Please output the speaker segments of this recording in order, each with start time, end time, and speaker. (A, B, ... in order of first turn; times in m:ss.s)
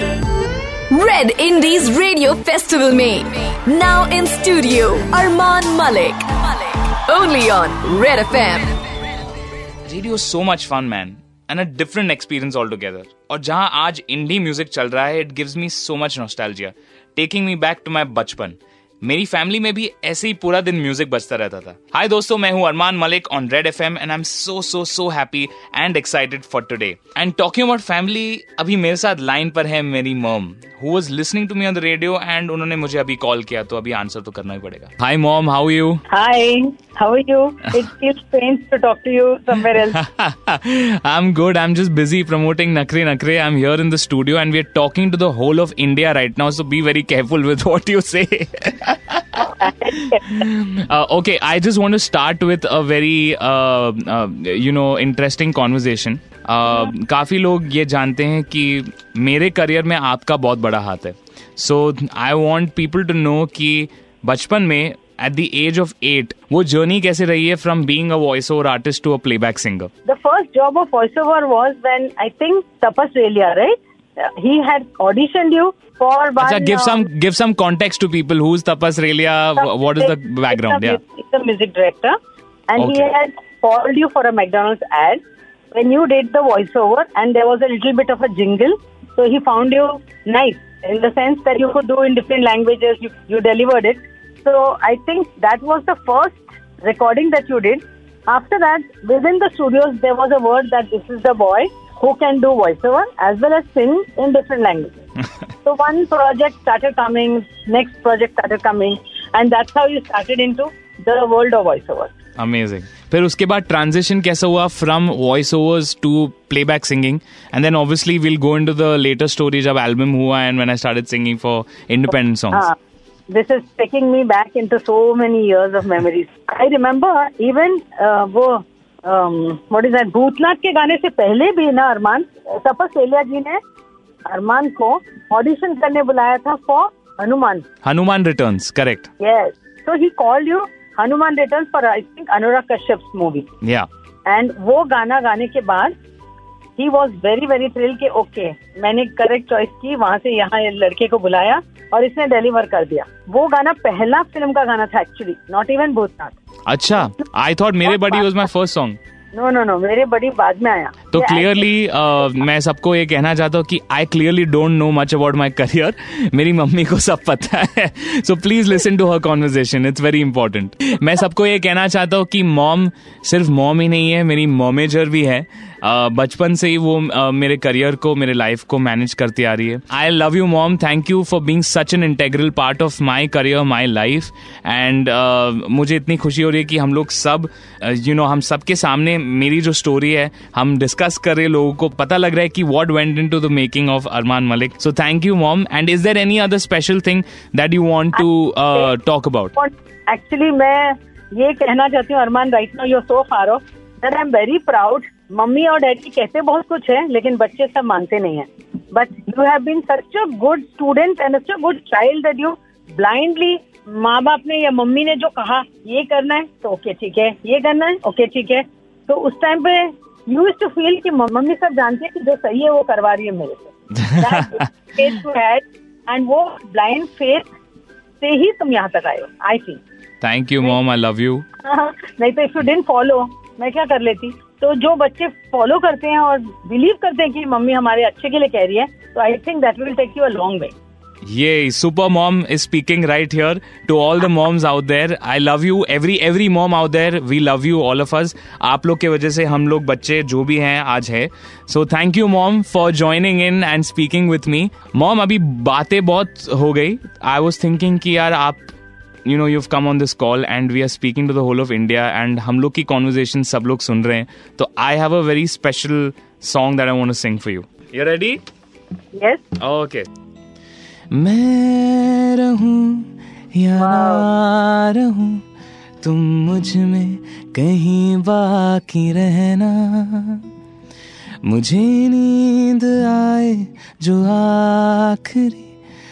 0:00.9-0:08.8 A
0:09.8-0:36.0 B
0:36.1-0:40.0 C
0:39.7-0:49.5 B
0:49.4-0:50.4 C
0:50.0-1:09.9 B
1:10.0-1:17.1 C
1:16.4-1:21.0 B
1:19.6-1:22.2 C
1:22.7-1:45.0 C
1:22.8-1:23.1 B
1:45.6-1:52.1 C
1:52.4-2:02.7 B
2:03.3-2:13.6 C
2:14.2-2:17.6 C
2:17.8-2:19.1 B
2:19.2-2:23.5 C
2:24.2-2:25.9 C
2:26.8-2:36.4 C
2:36.7-2:39.0 B
2:37.9-2:38.2 C
2:39.3-2:41.7 C
2:41.1-3:19.5 B
3:19.5-3:47.5 C
3:44.0-3:44.6 B
3:48.2-3:49.8 C
3:50.2-3:51.4 B
3:51.6-4:00.7 C
4:01.2-4:18.6 B
4:19.2-4:28.4 B
4:29.1-4:29.4 C
4:29.6-4:30.1 B
4:31.1-4:35.4 B
4:33.8-4:34.3 C
4:36.0-4:40.4 B
4:41.4-4:45.7 B